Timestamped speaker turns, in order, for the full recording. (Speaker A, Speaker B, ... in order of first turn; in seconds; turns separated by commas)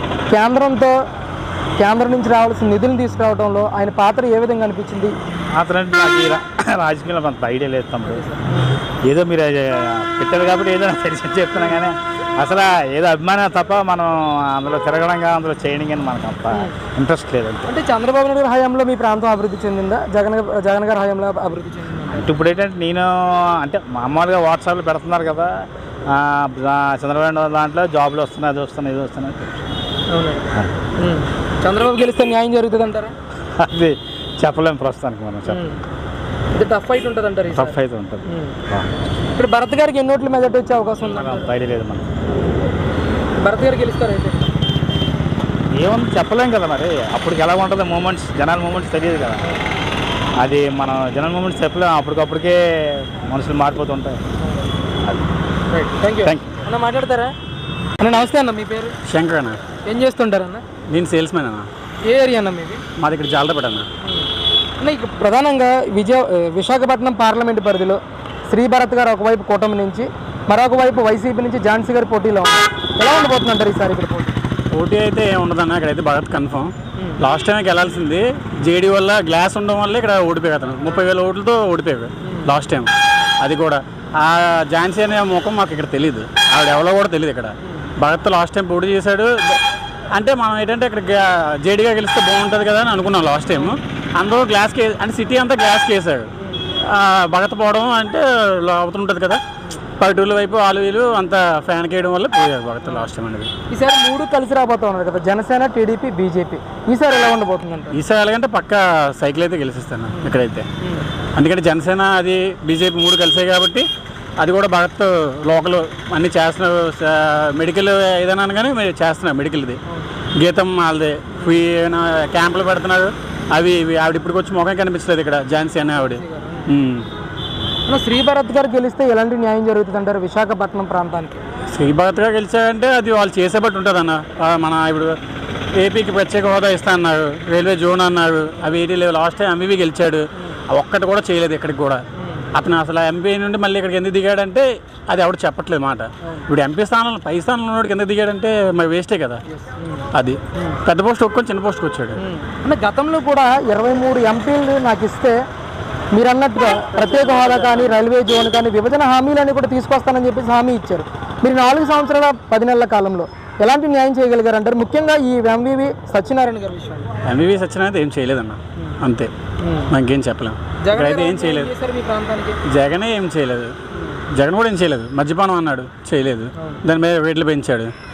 Speaker A: 0.3-0.9, Speaker A: 1.8-5.1, Speaker B: 5.5-8.2, Speaker A: 8.0-8.8, Speaker B: 9.0-17.7, Speaker A: 17.7-22.3, Speaker B: 22.1-29.7, Speaker A: 30.1-30.4, Speaker A: 31.0-33.1, Speaker B: 33.5-35.6, Speaker A: 35.5-35.8, Speaker A: 36.5-38.5, Speaker B: 37.5-38.9, Speaker A: 39.3-41.5, Speaker B: 41.0-42.1, Speaker A: 43.4-44.6, Speaker B: 45.7-49.5, Speaker B: 50.4-54.2, Speaker A: 55.7-57.3, Speaker B: 56.2-56.5, Speaker A: 58.0-59.0, Speaker C: 59.0-59.6, Speaker A: 59.8-60.6, Speaker C: 60.9-61.7, Speaker A: 62.0-62.8, Speaker C: 63.0-63.9, Speaker A: 64.0-64.3, Speaker A: 64.8-74.3, Speaker C: 74.7-82.9, Speaker A: 82.2-82.5, Speaker C: 83.4-89.6, Speaker C: 90.1-96.3, Speaker A: 96.4-96.7, Speaker C: 96.8-99.4, Speaker C: 100.0-103.5, Speaker A: 102.8-103.1, Speaker A: 103.7-108.0, Speaker C: 107.9-110.7, Speaker A: 110.1-111.1, Speaker C: 111.3-113.8, Speaker C: 114.4-119.8, Speaker C: 120.3-127.0, Speaker A: 121.3-121.6, Speaker A: 125.9-126.7, Speaker A: 127.9-131.4, Speaker C: 131.7-135.2, Speaker C: 135.8-142.0, Speaker A: 142.2-142.5, Speaker C: 142.5-149.4, Speaker A: 149.5-150.8, Speaker C: 150.1-152.2, Speaker A: 152.2-155.3, Speaker A: 156.1-167.1, Speaker C: 167.2-169.3, Speaker A: 169.6-169.9, Speaker C: 169.9-171.7, Speaker A: 170.8-172.6, Speaker C: 172.6-173.7, Speaker A: 173.9-174.2, Speaker C: 174.3-177.9